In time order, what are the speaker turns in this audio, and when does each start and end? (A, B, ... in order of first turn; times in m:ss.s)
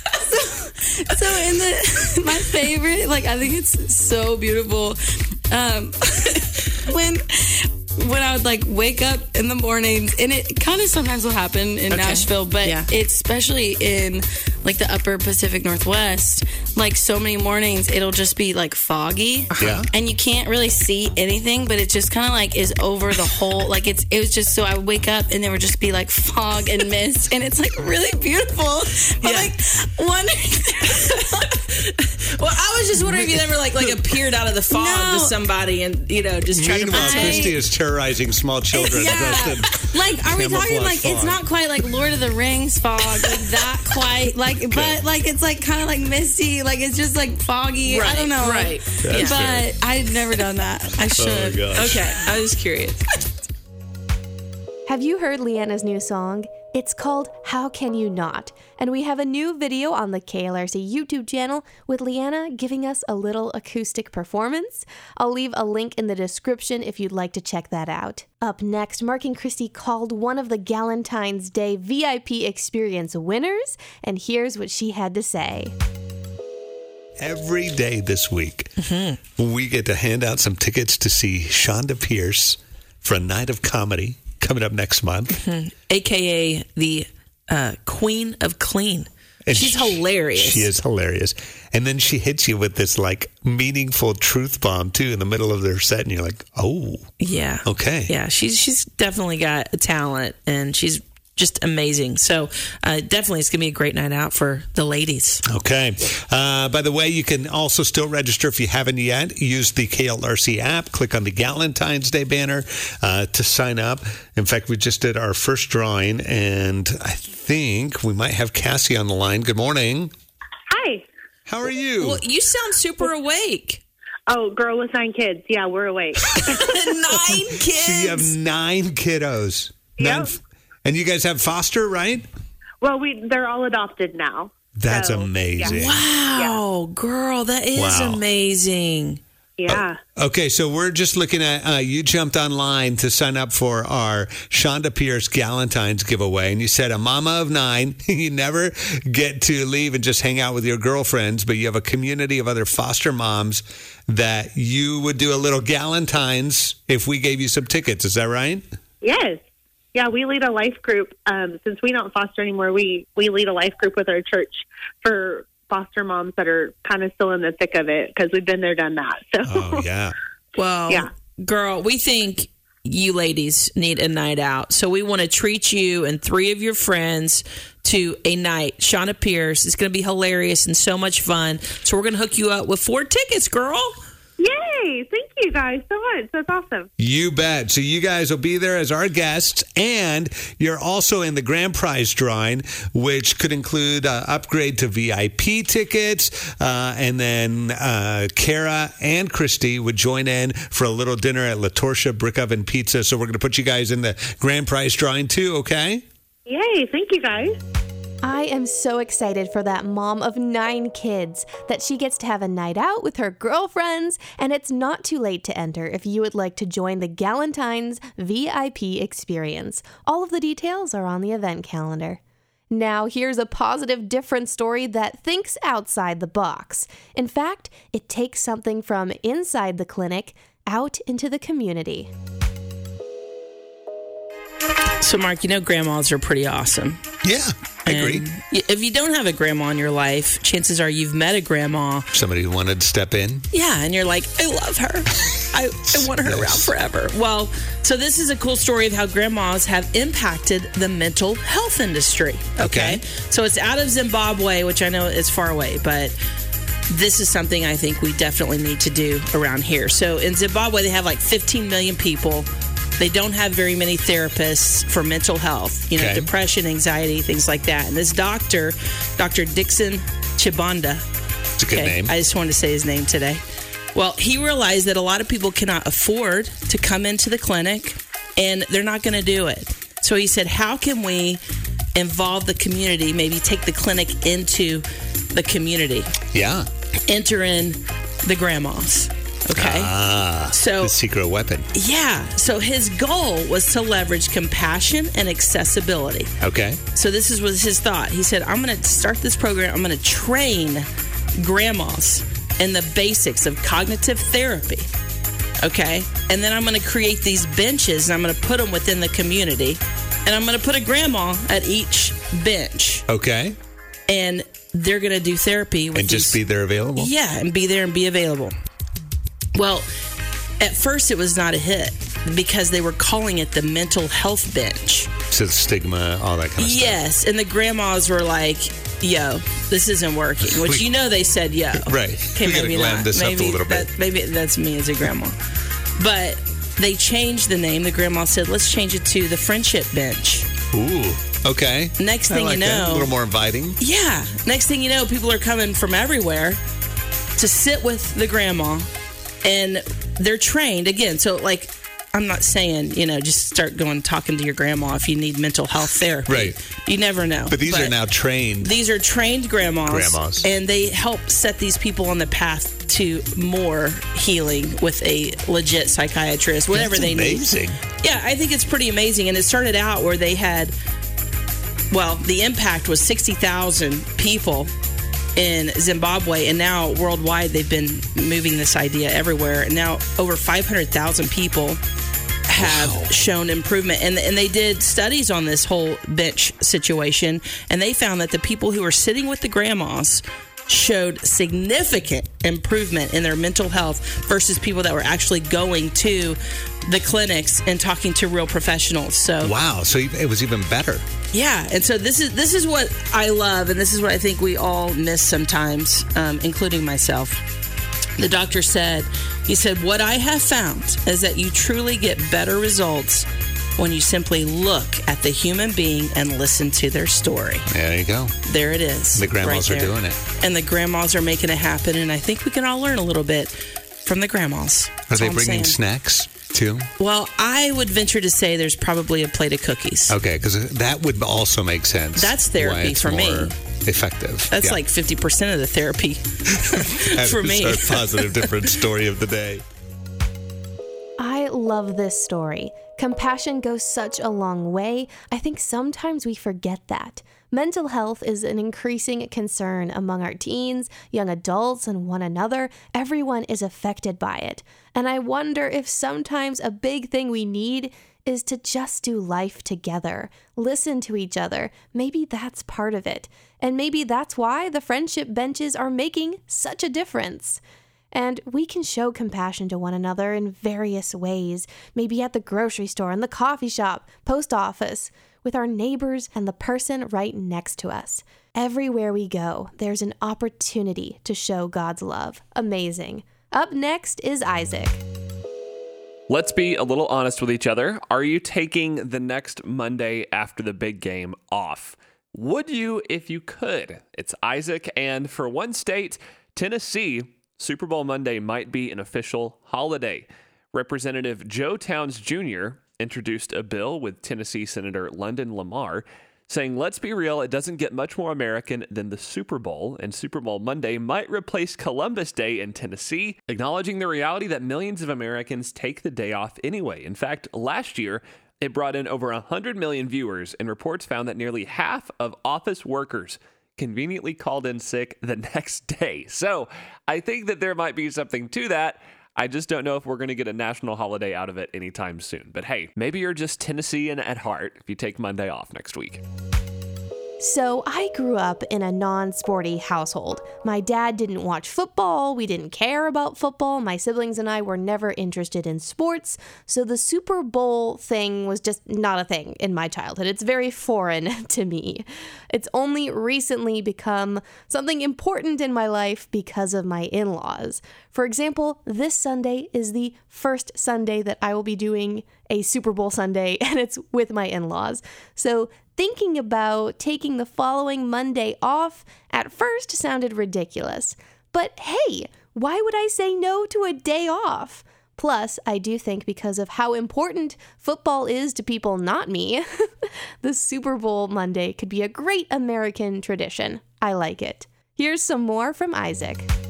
0:00.1-0:05.0 A
0:05.5-0:31.5 A
0:11.9-0:12.9 B
0:19.5-0:19.8 B
0:19.6-0:19.9 C
0:29.2-0:29.5 B
0:30.9-0:37.5 B
0:33.0-0:33.4 C
0:34.7-0:35.3 A
0:36.5-0:41.4 C
0:36.9-0:37.6 A
0:38.7-0:51.9 A
0:44.7-0:45.0 C
0:47.8-0:49.4 B
0:49.0-0:49.7 C
0:51.1-0:52.0 C
0:51.7-0:53.0 B
0:54.8-1:15.7 D
1:17.2-1:18.8 C
1:18.8-1:19.2 B
1:19.4-1:25.4 C
1:25.3-1:30.7 B
1:29.4-1:37.1 C
1:37.2-1:45.4 B
1:37.6-1:38.1 C
1:45.4-2:00.1 C
2:00.7-2:01.1 E
2:01.4-2:02.2 C
2:02.0-2:03.8 B
2:04.3-2:06.6 E
2:06.4-2:08.3 B
2:07.1-2:12.2 C
2:10.0-2:10.3 E
2:12.8-2:15.8 E
2:14.8-2:16.0 C
2:15.6-2:19.2 B
2:17.7-2:18.2 C
2:19.6-2:20.0 E
2:19.7-2:38.6 C
2:39.0-2:39.4 E
2:39.9-2:49.8 E
2:49.4-2:50.1 C
2:50.6-3:04.0 B
3:04.4-3:06.9 E
3:07.0-3:26.0 C
3:26.5-3:27.6 E
3:28.2-3:52.1 D
3:55.0-3:57.0 B
3:57.2-3:58.2 C
3:57.8-4:02.1 B
4:02.1-4:03.4 C
4:03.5-4:16.2 B
4:05.9-4:06.7 C
4:12.6-4:13.0 C
4:16.9-4:22.5 B
4:23.0-4:31.0 B
4:25.9-4:26.3 C
4:31.6-4:32.1 C
4:31.7-4:33.4 B
4:33.9-4:41.4 B
4:41.9-4:46.1 B
4:46.3-4:46.7 C
4:47.0-4:50.0 B
4:49.5-4:51.7 C
4:50.5-4:50.9 B
4:51.7-4:56.3 B
4:56.4-4:56.8 C
4:56.9-5:00.8 B
5:01.4-5:04.9 B
5:05.6-5:13.0 B
5:13.1-5:13.6 C
5:14.1-5:16.4 B
5:15.9-5:17.1 C
5:17.0-5:18.5 B
5:19.5-5:19.9 B
5:20.6-5:25.1 B
5:25.3-5:27.0 C
5:26.6-5:35.4 B
5:30.4-5:30.9 C
5:31.7-5:33.9 C
5:36.0-5:40.5 B
5:40.7-5:43.8 C
5:42.0-5:43.1 B
5:43.8-5:46.6 B
5:47.4-5:48.9 B
5:49.4-5:57.9 B
5:56.3-5:56.6 C
5:57.5-5:58.7 C
5:58.6-6:10.7 B
5:59.9-6:00.5 C
6:06.7-6:07.8 C
6:11.9-6:14.7 B
6:15.4-6:21.8 B
6:22.5-6:39.5 B
6:22.6-6:23.1 C
6:39.4-6:41.0 C
6:41.3-6:47.4 B
6:48.2-6:57.7 B
6:57.7-6:58.3 C
6:58.4-7:05.8 B
6:59.1-7:00.2 C
7:05.1-7:06.9 C
7:07.0-7:10.2 B
7:10.1-7:14.8 C
7:12.2-7:13.5 B
7:14.5-7:18.4 B
7:16.6-7:19.6 C
7:21.2-7:47.6 D
7:48.1-8:05.0 D
8:06.3-8:56.2 F
8:57.4-9:46.5 D